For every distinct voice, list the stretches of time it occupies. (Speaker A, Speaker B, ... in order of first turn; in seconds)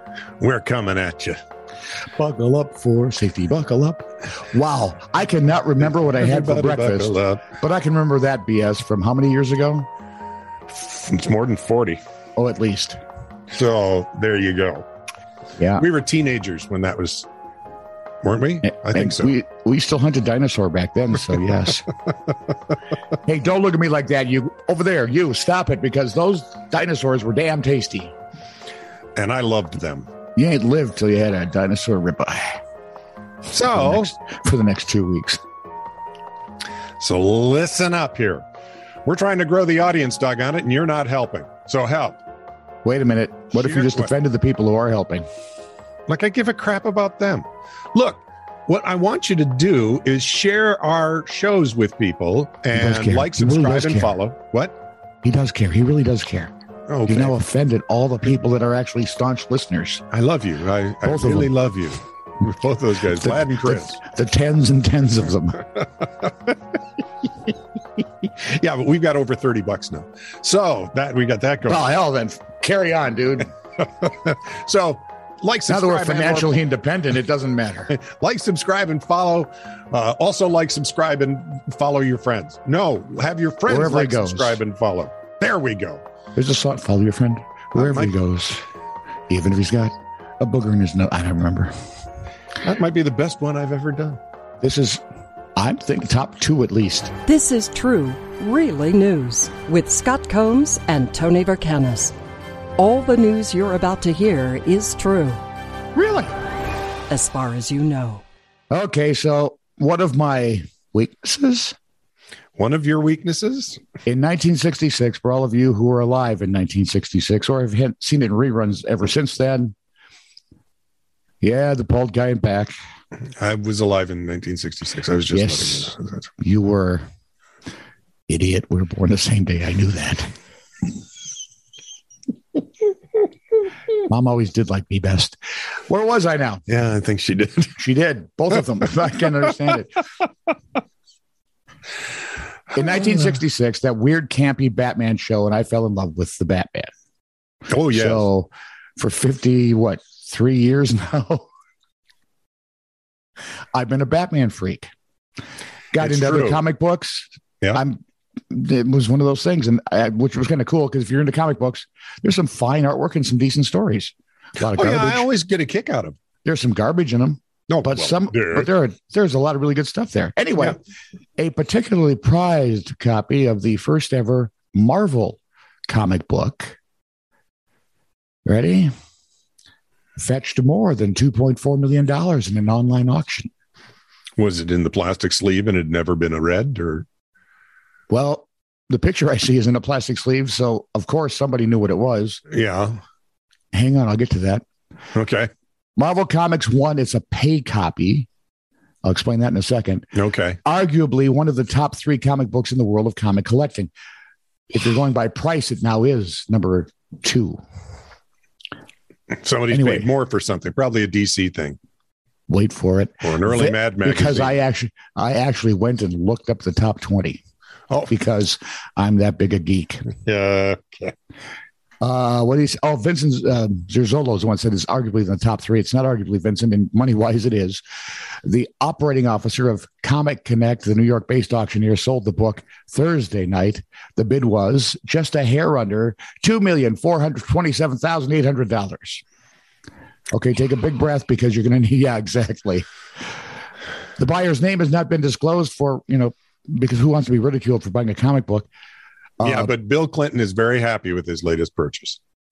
Speaker A: 0.4-1.4, 5.8-7.5, 10.7-12.0, 13.5-14.8, 15.8-17.3, 18.2-19.4, 29.1-30.1, 33.5-34.1, 37.0-38.4, 39.0-42.2, 43.5-44.1, 46.1-54.7, 56.9-57.4, 60.1-64.0, 68.4-71.8, 73.8-76.6, 77.9-86.0, 87.8-88.1, 92.6-94.2, 112.5-113.8, 123.4-126.3, 136.7-137.8, 147.7-148.3, 156.0-156.6, 164.7-166.2, 167.7-168.7, 184.4-187.1, 192.5-193.0, 195.1-195.5, 200.1-200.6, 209.3-211.8, 213.2-214.6, 220.2-221.1, 249.4-252.2
Speaker B: 2.2-9.9, 12.3-13.0, 15.6-15.8, 18.6-21.9, 23.2-28.1, 30.4-32.6, 33.7-35.4, 42.8-45.2, 52.7-54.2, 55.2-56.5, 57.0-60.0, 61.0-61.5, 63.2-65.7, 71.7-73.5, 75.7-77.9, 83.7-84.6, 86.3-88.6, 89.3-91.7, 94.6-95.0, 95.5-97.1, 105.9-106.3, 108.7-111.7, 114.0-119.7, 121.4-122.8, 125.3-127.0, 128.3-130.3, 134.1-136.6, 137.8-140.0, 142.7-146.9, 147.9-151.5, 153.7-154.9, 155.9-165.3, 166.4-170.8, 171.4-176.8, 178.4-178.9, 180.2-183.5, 188.1-192.4, 193.7-194.6, 196.0-198.3, 199.0-200.1, 200.6-203.9, 204.7-207.6, 209.7-210.1, 212.5-217.4, 218.1-220.0, 222.0-227.8, 228.4-239.2, 240.3-242.9, 244.2-248.7, 249.4-249.7
Speaker C: 97.2-102.1, 102.8-105.4, 107.1-108.2